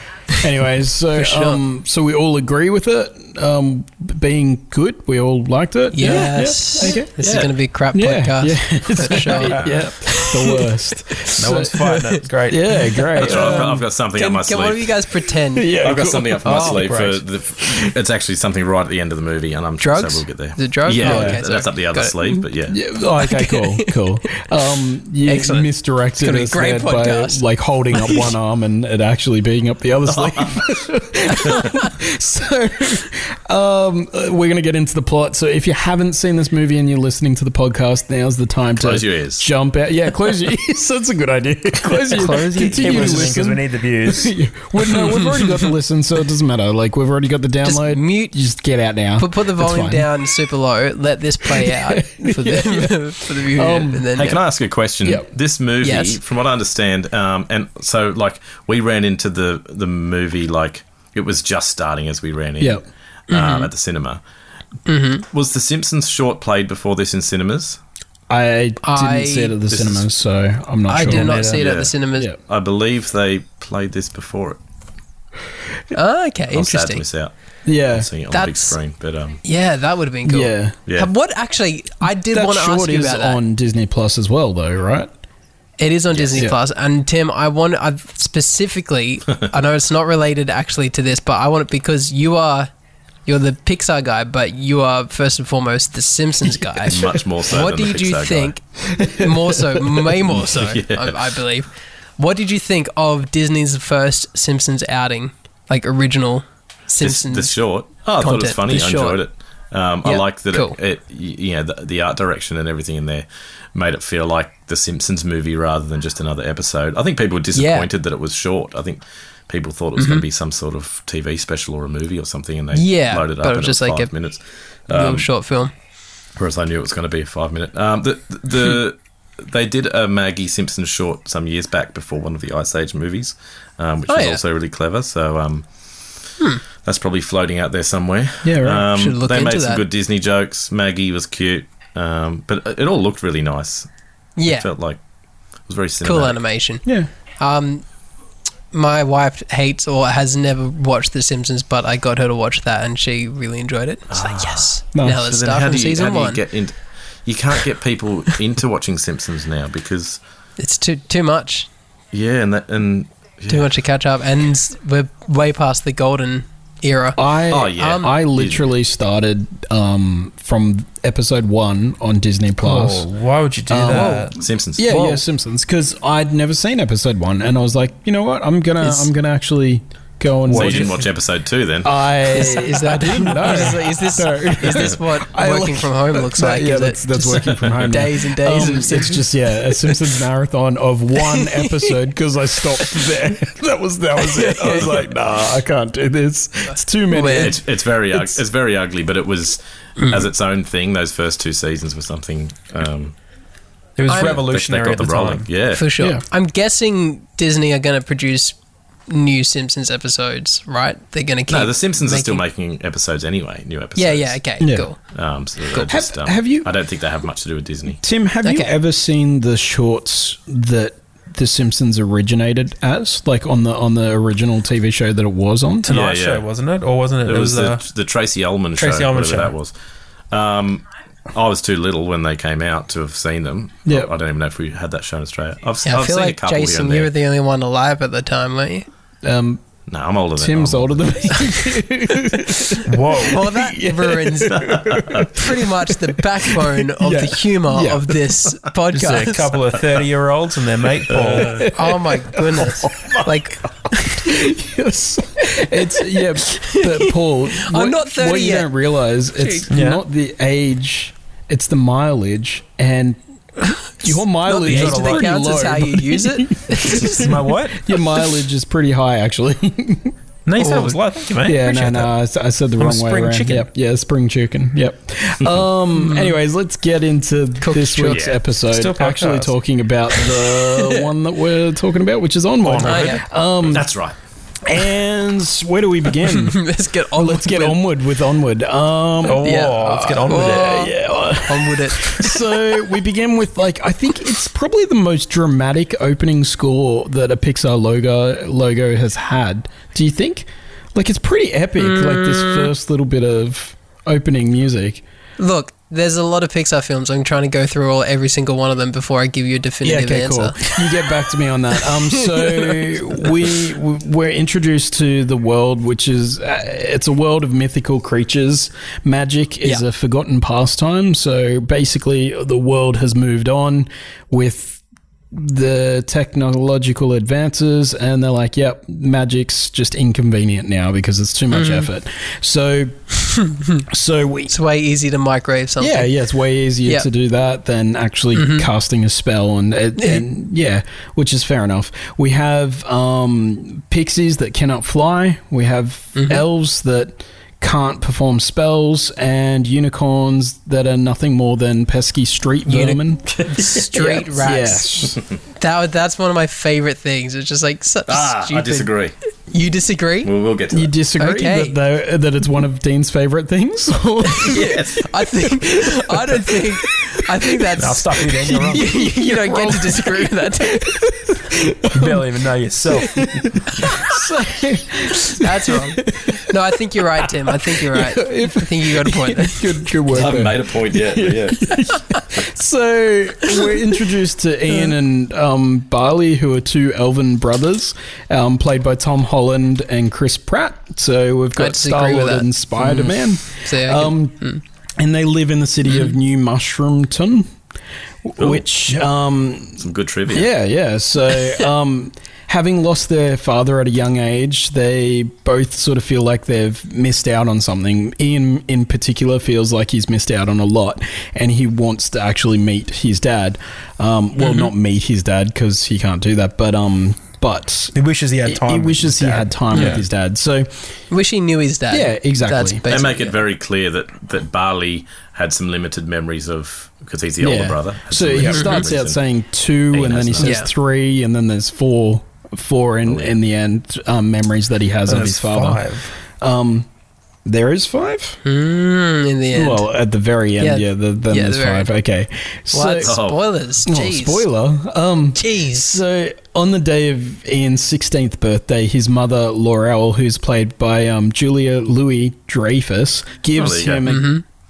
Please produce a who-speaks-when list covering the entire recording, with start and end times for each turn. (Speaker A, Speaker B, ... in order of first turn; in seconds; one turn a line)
Speaker A: 0.4-7.1
Speaker B: 1.1-1.6
Speaker B: 5.9-12.1
Speaker C: 7.2-7.5
Speaker A: 7.9-11.7
Speaker D: 9.3-9.8
Speaker D: 11.3-12.8
Speaker A: 12.5-13.8
Speaker C: 13.2-15.0
Speaker B: 13.2-15.8
Speaker A: 15.5-16.9
Speaker C: 15.8-22.8
Speaker D: 16.4-17.2
Speaker A: 17.6-17.9
Speaker B: 19.8-22.4
Speaker A: 21.0-21.4
Speaker A: 22.7-50.1
Speaker B: 23.2-23.9
Speaker B: 25.2-27.4
Speaker C: 30.1-30.6
Speaker B: 31.4-31.9
Speaker C: 38.8-39.5
Speaker D: 42.1-44.3
Speaker B: 44.9-45.5
Speaker B: 47.6-48.4
Speaker B: 49.2-54.4
Speaker A: 51.4-54.1
Speaker C: 54.1-64.2
Speaker B: 55.8-56.2
Speaker B: 63.3-63.7
Speaker B: 64.9-65.2
Speaker C: 65.3-67.8
Speaker A: 68.3-71.6
Speaker B: 68.8-69.5
Speaker C: 69.7-70.0
Speaker B: 70.9-72.3
Speaker D: 71.0-71.6
Speaker C: 71.4-74.6
Speaker B: 75.9-77.0
Speaker C: 76.5-77.3
Speaker A: 77.6-78.1
Speaker C: 77.9-79.4
Speaker B: 78.3-78.8
Speaker B: 79.4-83.4
Speaker A: 80.2-80.8
Speaker A: 82.3-85.1
Speaker B: 85.8-92.7
Speaker C: 86.1-86.4
Speaker B: 93.2-107.6
Speaker C: 96.8-98.5
Speaker A: 98.9-100.0
Speaker C: 100.3-101.3
Speaker C: 107.0-125.3
Speaker B: 108.2-109.2
Speaker B: 110.0-110.8
Speaker B: 117.5-117.9
Speaker B: 120.0-120.2
Speaker B: 122.7-124.1
Speaker B: 124.9-125.7
Speaker C: 126.3-135.7
Speaker B: 134.1-134.4
Speaker C: 136.8-143.9
Speaker A: 138.4-138.9
Speaker B: 138.9-139.8
Speaker B: 144.4-144.7
Speaker C: 144.4-145.0
Speaker C: 145.6-146.4
Speaker B: 146.0-146.8
Speaker A: 146.8-147.1
Speaker B: 147.4-147.8
Speaker B: 148.7-156.4
Speaker C: 154.1-160.2
Speaker A: 154.9-155.2
Speaker B: 160.6-161.7
Speaker C: 162.1-163.7
Speaker B: 163.5-168.1
Speaker A: 167.2-173.1
Speaker C: 167.5-168.7
Speaker D: 172.6-174.3
Speaker A: 173.7-180.9
Speaker B: 173.8-175.2
Speaker C: 174.4-175.0
Speaker B: 178.8-179.1
Speaker D: 180.4-181.1
Speaker C: 180.5-181.9
Speaker A: 181.8-198.3
Speaker B: 182.3-189.9
Speaker B: 191.2-191.9
Speaker B: 194.2-194.9
Speaker B: 196.7-197.6
Speaker C: 197.4-203.2
Speaker B: 200.0-200.3
Speaker D: 204.0-205.5
Speaker B: 204.1-204.4
Speaker C: 204.1-205.8
Speaker B: 205.7-212.4
Speaker C: 211.5-214.4
Speaker B: 213.9-215.0
Speaker A: 214.6-214.9
Speaker C: 215.1-218.0
Speaker A: 215.8-216.7
Speaker A: 218.0-225.9
Speaker B: 218.4-218.7
Speaker D: 225.8-227.8
Speaker C: 225.9-226.4
Speaker C: 227.2-229.7
Speaker D: 228.8-229.5
Speaker C: 230.3-237.1
Speaker A: 233.8-234.1
Speaker B: 235.8-238.9
Speaker A: 239.2-239.6
Speaker C: 239.9-241.5
Speaker A: 240.3-248.4
Speaker B: 242.5-249.5
Speaker D: 242.8-243.4
Speaker C: 244.7-245.2
Speaker D: 248.9-251.7
Speaker C: 251.1-251.5
Speaker A: 251.2-253.3
Speaker B: 251.7-253.9
Speaker A: 253.9-263.2
Speaker B: 256.4-258.7
Speaker B: 259.3-259.7
Speaker D: 259.7-260.0
Speaker B: 263.6-267.4
Speaker A: 263.9-270.1
Speaker D: 264.6-265.3
Speaker D: 267.1-267.8
Speaker D: 270.4-272.1
Speaker B: 270.6-271.0
Speaker A: 271.4-283.9
Speaker D: 272.8-273.7
Speaker B: 275.9-276.4
Speaker B: 277.6-278.3
Speaker C: 278.1-278.4
Speaker D: 278.7-279.5
Speaker B: 280.5-281.1
Speaker D: 282.6-283.2
Speaker B: 282.8-283.2
Speaker C: 283.6-284.1
Speaker A: 284.6-289.6
Speaker B: 286.2-287.8
Speaker D: 289.2-290.9
Speaker B: 289.3-292.6
Speaker A: 290.2-305.0
Speaker B: 301.8-302.7
Speaker B: 305.4-311.1
Speaker A: 309.8-333.1
Speaker B: 311.8-313.3
Speaker B: 331.5-331.9
Speaker B: 333.5-333.8
Speaker A: 333.9-334.5
Speaker B: 334.5-336.1
Speaker A: 335.8-355.2
Speaker B: 338.3-338.7
Speaker B: 340.0-340.2
Speaker B: 346.1-346.4
Speaker B: 352.7-358.9
Speaker C: 358.1-359.1
Speaker B: 359.5-360.3
Speaker C: 360.2-360.9
Speaker A: 360.7-364.9
Speaker B: 361.2-361.8
Speaker B: 364.3-371.0
Speaker C: 364.4-365.0
Speaker A: 365.4-367.7
Speaker D: 367.8-368.9
Speaker A: 368.4-372.3
Speaker D: 371.9-374.0
Speaker A: 372.9-376.6
Speaker B: 375.3-379.9
Speaker A: 377.2-397.5
Speaker C: 380.1-381.8
Speaker B: 391.6-394.6
Speaker B: 395.9-396.1
Speaker A: 398.2-420.9
Speaker C: 398.4-398.7
Speaker C: 399.8-400.5
Speaker B: 414.4-414.7
Speaker D: 417.9-420.0
Speaker B: 419.7-420.0
Speaker B: 421.1-423.4
Speaker A: 421.9-422.8
Speaker C: 422.9-429.2
Speaker A: 427.4-436.9
Speaker B: 428.5-428.8
Speaker C: 429.9-430.6
Speaker B: 430.4-430.7
Speaker C: 433.1-433.3
Speaker D: 435.1-436.1
Speaker A: 437.4-438.4
Speaker B: 438.4-439.9
Speaker A: 439.5-443.2
Speaker B: 440.6-441.9
Speaker B: 442.7-444.4
Speaker C: 443.0-443.4
Speaker A: 443.8-454.4
Speaker B: 445.4-446.0
Speaker C: 453.6-454.1
Speaker B: 454.1-454.4